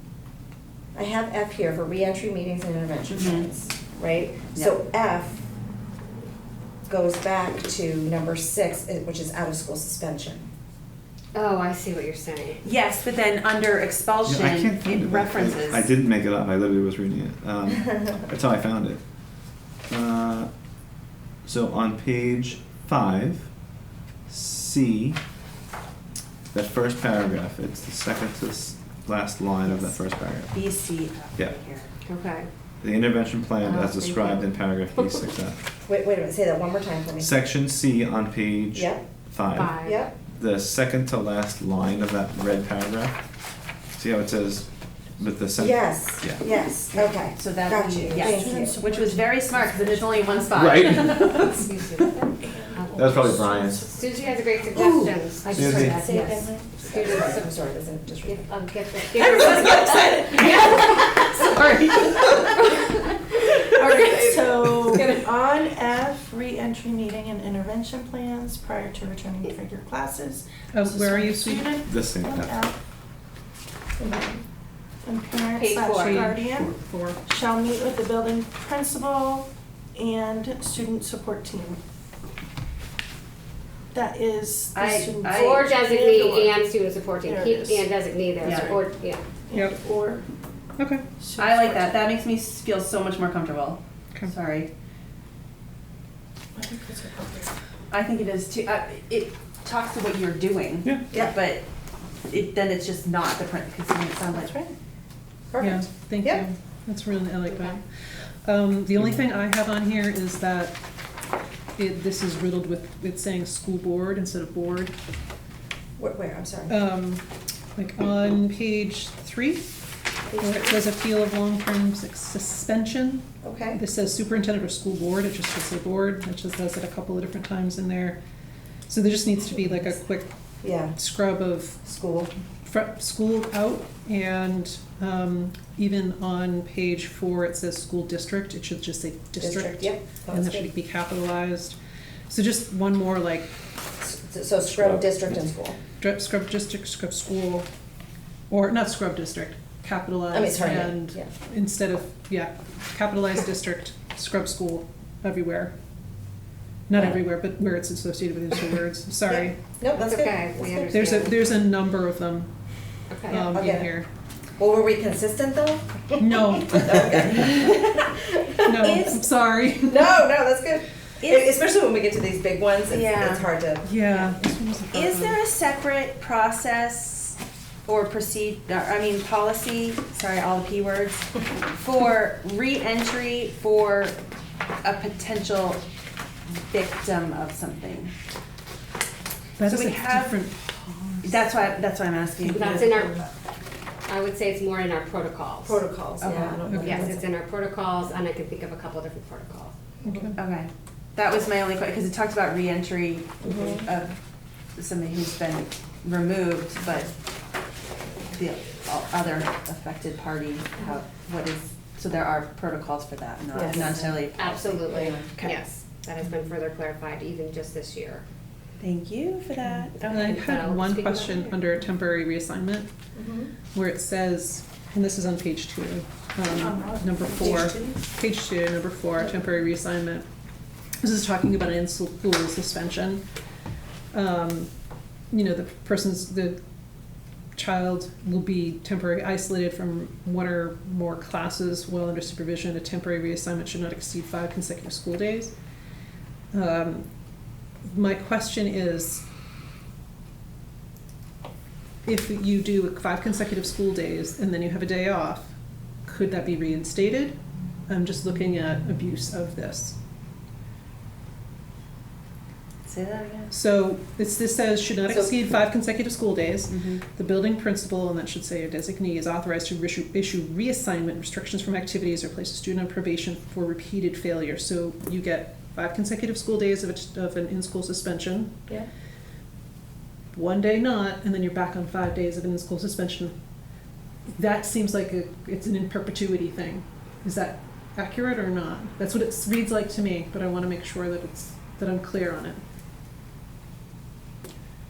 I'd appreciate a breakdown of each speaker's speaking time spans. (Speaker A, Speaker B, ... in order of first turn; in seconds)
Speaker A: 0.9-5.5, 6.9-10.4, 35.9-37.3, 38.7-39.0, 39.8-40.1, 45.6-48.8, 56.0-58.5, 74.0-74.4, 105.5-106.4, 116.0-116.8, 120.3-120.8, 123.4-123.8, 130.6-130.9, 131.8-132.3, 139.4-140.7, 144.0-145.8, 150.3-151.3, 159.3-160.9, 163.5-163.9, 164.6-169.2, 169.9-173.9, 195.6-197.3, 203.5-203.9, 213.6-214.1, 223.2-223.5, 265.1-265.5
Speaker B: 3.0-3.5, 12.6-15.9, 29.6-30.0, 30.5-31.9, 33.9-34.4, 47.3-51.5, 75.6-76.4, 84.7-86.3, 88.4-88.8, 91.4-94.7, 97.9-101.7, 102.3-104.6, 171.2-171.6, 172.9-173.5, 174.9-184.2, 184.8-185.8, 186.7-188.1, 189.6-190.4, 191.2-193.3, 196.2-196.6, 200.3-204.2, 204.8-207.1, 208.3-215.6, 218.8-220.5, 262.9-263.6, 266.7-267.0
Speaker C: 11.3-12.6, 32.0-32.5, 33.7-34.2, 39.5-40.0, 51.2-57.5, 58.2-62.9, 64.9-65.2, 85.2-89.2, 107.5-107.8, 159.9-161.6, 163.1-163.5, 192.4-193.2, 194.1-195.8, 196.7-199.8, 213.8-218.2, 220.1-221.5
Speaker D: 14.2-19.0, 19.9-20.5, 21.4-23.5, 24.3-25.2, 26.5-30.7, 32.8-35.6, 37.2-43.2, 44.0-46.4, 50.5-52.1, 52.9-53.9, 55.5-56.0, 71.8-72.6, 144.7-145.3
Speaker E: 48.1-51.0, 52.4-57.3, 59.1-72.8, 75.0-81.8, 83.9-86.6, 87.2-88.9, 89.5-90.2, 91.2-92.1, 96.5-97.5, 104.3-104.7, 226.5-228.0
Speaker F: 70.7-71.8, 76.0-77.2, 90.8-91.0, 105.6-107.8, 108.4-110.8, 111.8-114.9, 116.7-117.2, 117.8-119.8, 120.4-128.2, 128.9-130.3, 130.9-131.8, 132.6-141.8, 142.3-143.5, 146.0-147.7, 148.5-155.7, 156.9-159.7, 160.9-162.5, 163.3-164.1, 166.2-167.4, 168.7-170.2, 173.8-175.4, 189.6-191.4, 196.7-197.1, 200.0-200.3, 220.1-222.9, 223.7-230.2, 231.0-233.2, 234.1-234.7, 235.3-236.6, 237.6-245.5, 246.5-247.0, 247.9-249.2, 252.0-255.5, 256.1-257.4, 257.9-259.9, 263.5-278.6, 280.3-283.3, 284.4-292.6